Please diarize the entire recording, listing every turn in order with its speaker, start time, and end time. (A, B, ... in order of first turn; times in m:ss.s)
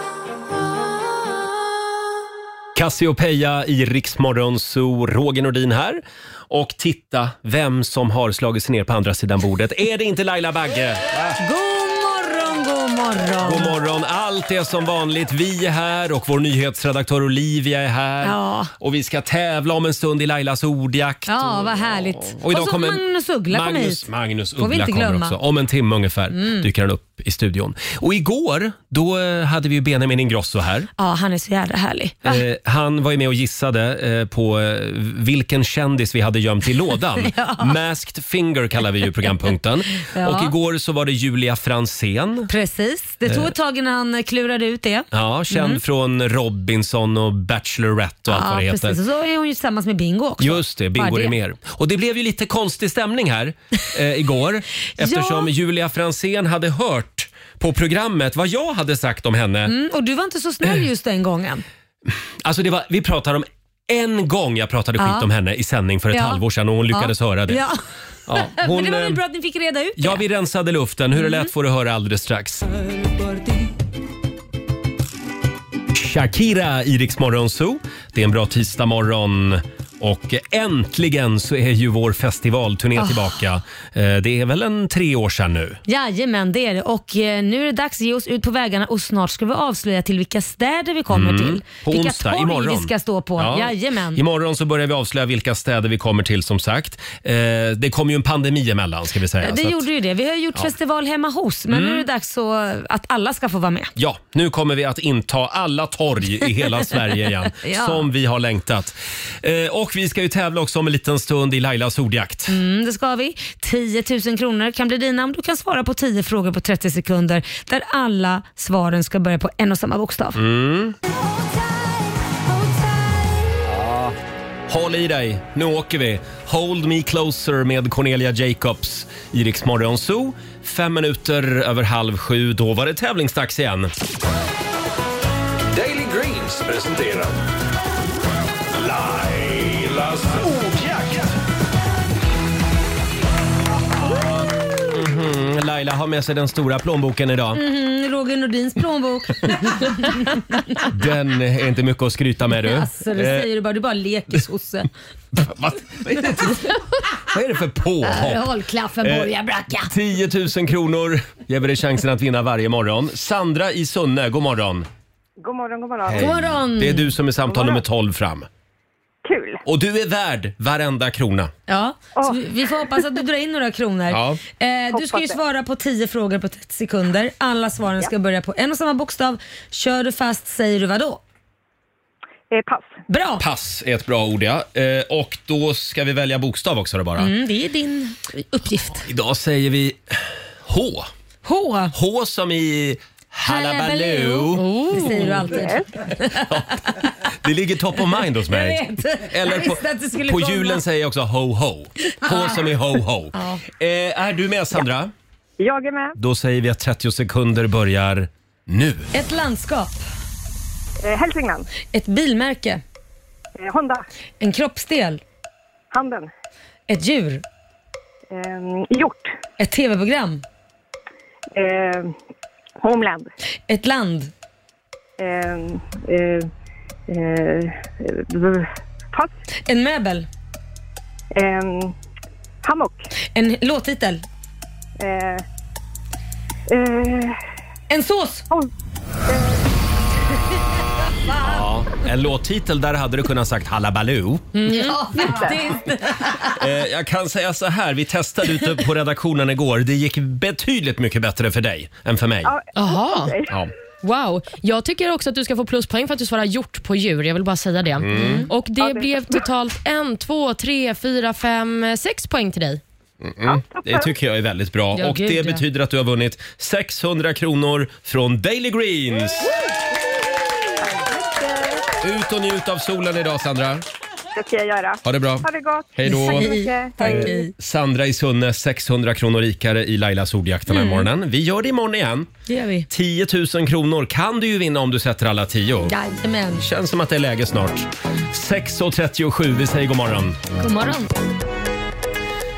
0:02.8-0:11.4 A
0:11.4-0:13.8 B
0:13.4-0:30.9 A
0:18.2-0:18.7 B
0:21.3-0:24.0 B
0:24.6-0:25.4 B
0:26.4-0:26.6 B
0:31.0-0:32.4 B
0:32.2-0:42.5 A
0:37.2-0:37.7 B
0:40.1-0:40.5 B
0:42.5-0:45.8 B
0:43.3-0:43.5 A
0:45.1-0:49.0 A
0:48.3-0:51.3 B
0:50.4-0:59.8 A
0:55.0-0:55.5 B
0:59.7-1:01.6 B
1:02.1-1:07.7 A
1:05.0-1:05.3 B
1:06.1-1:07.8 B
1:08.3-1:09.2 A
1:08.3-1:10.2 B
1:10.0-1:12.6 A
1:11.2-1:11.5 B
1:12.9-1:13.5 C
1:15.9-1:25.8 A
1:23.0-1:23.3 B
1:25.9-1:34.2 B
1:31.1-1:39.8 A
1:39.4-1:43.9 B
1:41.7-1:42.1 A
1:44.0-1:52.6 A
1:47.6-1:48.1 B
1:52.5-2:00.4 B
2:00.4-2:01.0 A
2:03.6-2:04.2 A
2:04.7-2:13.9 A
2:15.7-2:17.4 C
2:18.7-2:21.4 C
2:24.0-2:27.6 A
2:27.6-2:30.9 B
2:30.8-2:33.5 A
2:32.6-2:34.9 B
2:35.3-2:38.5 A
2:38.0-2:39.9 B
2:39.0-2:39.3 A
2:39.9-2:44.9 A
2:45.4-2:46.5 D
2:46.0-2:48.5 A
2:46.1-2:47.1 B
2:47.5-2:47.8 D
2:49.2-2:49.6 D
2:49.7-2:51.5 A
2:51.7-3:01.2 B
2:52.2-2:53.1 D
2:54.1-2:54.4 A
2:54.9-2:55.4 D
3:02.5-3:03.0 D
3:03.1-3:03.5 B
3:03.4-3:07.3 A
3:07.2-3:09.1 B
3:09.0-3:11.1 A
3:11.4-3:11.9 B
3:11.9-3:15.5 A
3:13.4-3:17.1 B
3:14.5-3:15.2 E
3:15.5-3:15.9 D
3:16.5-3:25.1 A
3:18.4-3:20.8 B
3:22.2-3:22.6 B
3:23.4-3:23.6 B
3:25.6-3:26.2 D
3:26.2-3:29.1 A
3:29.1-3:30.0 B
3:31.0-3:31.7 D
3:31.9-3:32.8 B
3:33.6-3:34.0 D
3:34.4-3:35.2 B
3:35.9-3:36.3 D
3:36.9-3:37.4 B
3:38.3-3:39.3 D
3:39.6-3:40.4 B
3:41.5-3:42.1 D
3:42.8-3:43.3 D
3:43.7-3:44.3 B
3:45.2-3:46.5 D
3:47.1-3:49.3 D
3:49.7-3:50.3 B
3:51.3-3:52.0 D
3:52.6-3:53.1 D
3:53.3-3:54.2 B
3:55.0-3:55.4 D
3:56.7-3:57.4 D
3:57.9-3:58.5 B
3:59.3-3:59.6 D
4:01.3-4:01.6 B
4:01.4-4:04.5 A
4:04.6-4:06.6 B
4:05.2-4:05.6 D
4:06.6-4:12.5 A
4:12.4-4:13.6 D
4:12.8-4:13.4 E
4:14.0-4:22.8 E
4:18.0-4:18.5 A
4:18.1-4:18.5 B
4:18.8-4:19.3 D
4:23.2-4:29.5 A
4:23.5-4:24.1 D
4:25.0-4:25.6 E
4:30.9-4:31.9 D
4:32.0-4:33.8 A
4:34.4-4:37.4 D
4:35.0-4:42.3 A
4:36.1-4:37.5 B
4:40.7-4:41.1 B
4:42.5-4:42.9 B
4:42.9-4:46.0 A
4:45.9-4:46.7 B
4:46.6-4:50.4 A
4:50.6-4:51.2 B